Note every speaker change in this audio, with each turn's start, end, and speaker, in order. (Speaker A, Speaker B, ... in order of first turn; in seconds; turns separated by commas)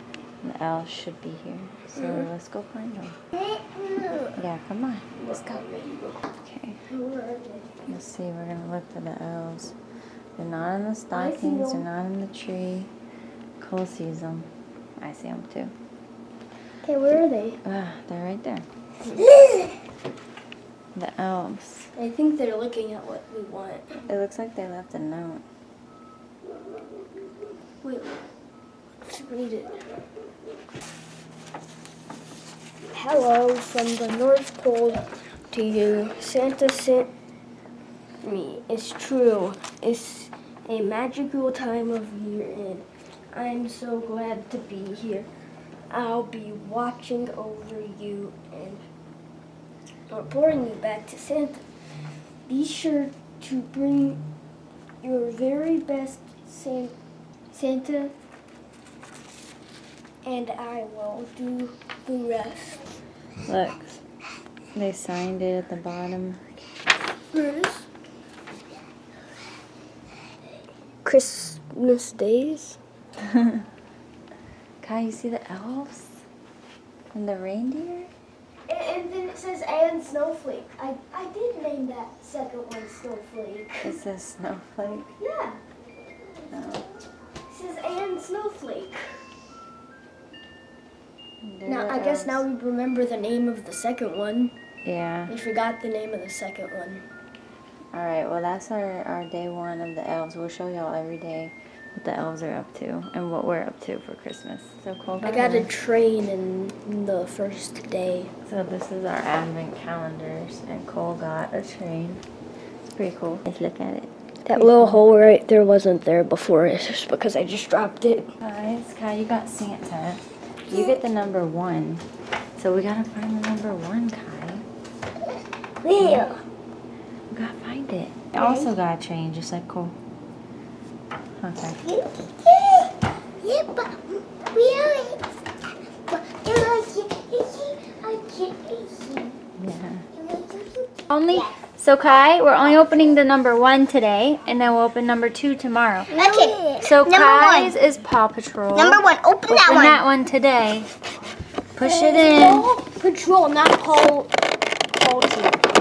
Speaker A: 0.4-3.2, Speaker B: 3.3-4.3, Speaker A: 4.3-5.6, Speaker C: 5.1-6.2, Speaker A: 6.4-6.8, Speaker C: 6.8-7.9, Speaker A: 7.9-9.8, Speaker A: 10.4-12.9, Speaker C: 11.1-11.8, Speaker A: 13.6-15.7, Speaker C: 16.8-17.6, Speaker A: 17.6-18.6, Speaker C: 19.0-19.4, Speaker A: 20.9-21.9, Speaker C: 21.9-24.0, Speaker A: 24.1-25.4, Speaker C: 27.8-28.1, Speaker C: 29.0-29.8, Speaker C: 32.9-37.1, Speaker C: 38.2-45.3, Speaker C: 45.9-48.8, Speaker C: 50.1-51.6, Speaker C: 52.5-54.2, Speaker C: 55.0-56.9, Speaker C: 57.5-58.1, Speaker C: 60.2-62.8, Speaker A: 63.5-64.0, Speaker A: 64.7-66.4, Speaker C: 67.3-67.8, Speaker C: 71.0-72.8, Speaker A: 73.3-73.6, Speaker A: 74.8-76.2, Speaker A: 77.1-78.1, Speaker C: 78.7-84.0, Speaker A: 83.8-85.1, Speaker C: 85.2-85.6, Speaker A: 86.5-86.8, Speaker C: 87.5-89.2, Speaker A: 91.4-92.4, Speaker C: 91.6-94.5, Speaker A: 94.8-95.3, Speaker C: 95.3-97.0, Speaker A: 97.9-105.7, Speaker C: 105.2-108.3, Speaker A: 108.4-112.2, Speaker A: 112.9-115.0, Speaker C: 114.5-118.3, Speaker A: 118.4-122.0, Speaker A: 122.6-124.7, Speaker C: 125.8-126.4, Speaker A: 126.0-126.3, Speaker A: 127.3-129.9, Speaker A: 131.4-131.8, Speaker B: 131.8-135.3, Speaker B: 136.1-139.4, Speaker A: 139.6-140.1, Speaker B: 140.1-141.6, Speaker A: 141.1-146.1, Speaker B: 146.1-147.8, Speaker C: 146.1-146.6, Speaker A: 146.8-150.9, Speaker B: 148.7-150.0, Speaker A: 151.7-152.7, Speaker C: 151.8-154.3, Speaker C: 154.9-155.6